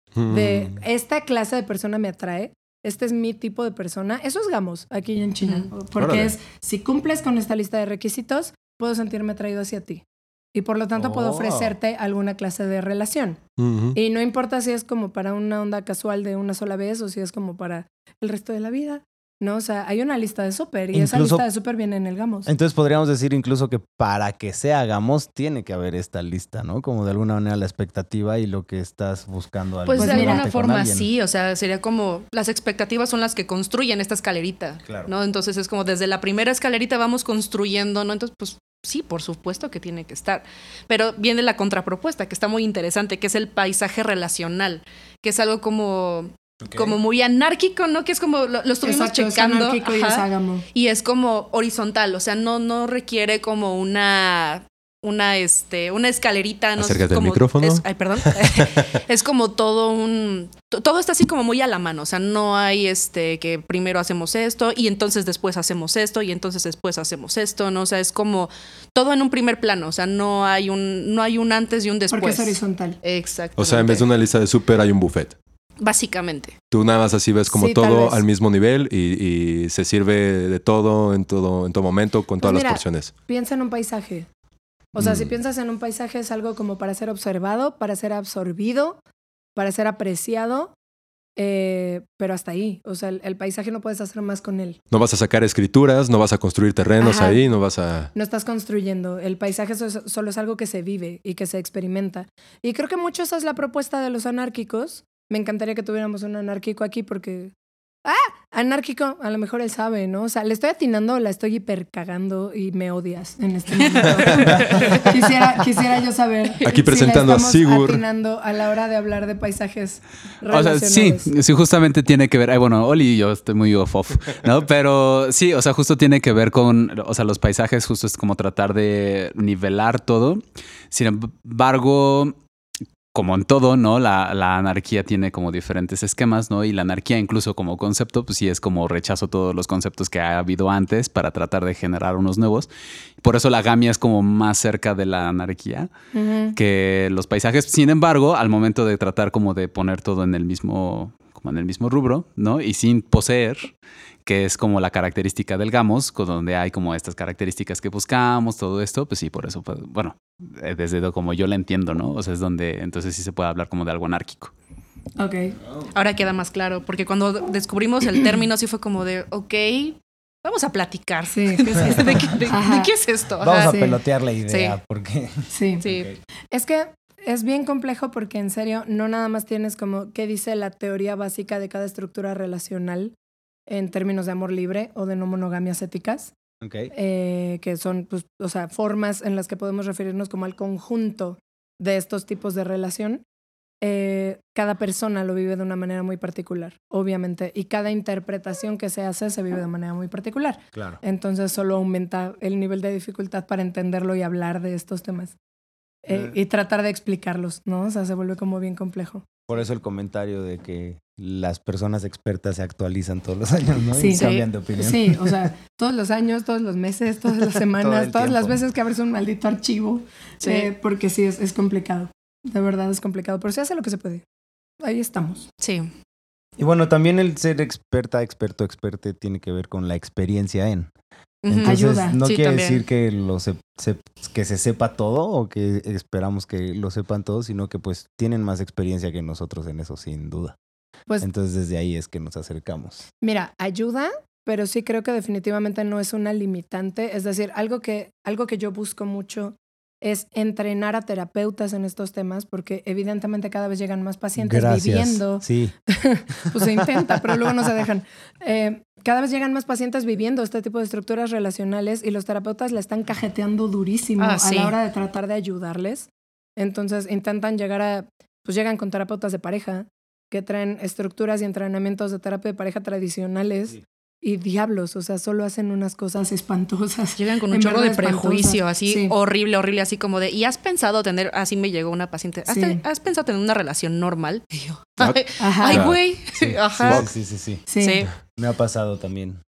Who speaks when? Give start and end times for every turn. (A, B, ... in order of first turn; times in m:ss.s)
0:00.2-0:00.8 A
0:00.3-0:10.0 B
0:06.0-0:06.3 A
0:10.5-0:13.4 B
0:10.9-0:11.8 C
0:13.6-0:14.0 A
0:13.9-0:22.5 B
0:20.9-0:21.4 C
0:22.4-0:31.1 C
0:29.8-1:14.0 D
0:30.0-0:30.5 B
0:34.8-0:35.1 C
0:46.6-0:47.0 C
0:48.8-0:50.6 B
0:56.8-0:57.8 A
0:58.4-0:58.8 A
1:12.1-1:13.0 B
1:13.6-1:15.4 A
1:15.8-1:16.6 D
1:16.7-1:23.1 A
1:17.5-1:18.2 B
1:22.4-1:24.3 B
1:24.9-1:29.0 B
1:25.0-1:25.3 A
1:29.6-1:30.7 B
1:31.4-1:34.8 B
1:34.9-1:38.1 A
1:37.0-1:37.4 B
1:38.1-1:47.5 B
1:48.0-2:01.3 B
1:54.3-1:55.0 D
1:56.6-1:58.0 A
2:00.5-2:12.4 E
2:13.1-2:22.7 E
2:23.2-2:25.9 E
2:26.1-2:26.6 B
2:26.5-2:44.5 E
2:45.2-2:45.6 B
2:45.9-2:53.7 D
2:51.3-2:52.9 B
2:53.4-2:56.2 C
2:53.6-2:54.0 B
2:54.5-2:54.8 D
2:55.5-2:55.8 B
2:55.8-2:56.1 D
2:56.5-3:03.1 B
3:03.7-3:06.3 B
3:06.6-3:06.9 C
3:06.9-3:13.2 B
3:13.8-3:25.3 B
3:20.7-3:21.0 C
3:26.0-3:29.2 B
3:26.1-3:26.3 C
3:29.5-3:35.5 C
3:34.0-3:44.2 B
3:34.1-3:34.4 D
3:37.8-3:38.6 C
3:40.4-3:40.7 D
3:44.8-3:45.5 B
3:45.6-3:45.9 D
3:46.6-3:50.9 C
3:51.4-3:52.8 D
3:51.5-4:00.5 C
3:51.6-3:52.2 B
4:01.2-4:03.1 C
4:03.2-4:39.1 B
4:14.4-4:15.7 C
4:16.5-4:17.1 C
4:24.2-4:24.8 D
4:37.2-4:47.1 D
4:42.5-4:42.8 B
4:45.0-4:46.0 A
4:45.4-4:45.8 B
4:46.4-4:47.6 C
4:46.8-4:47.1 A
4:47.7-4:48.0 B
4:47.8-4:48.1 D
4:48.3-4:49.4 C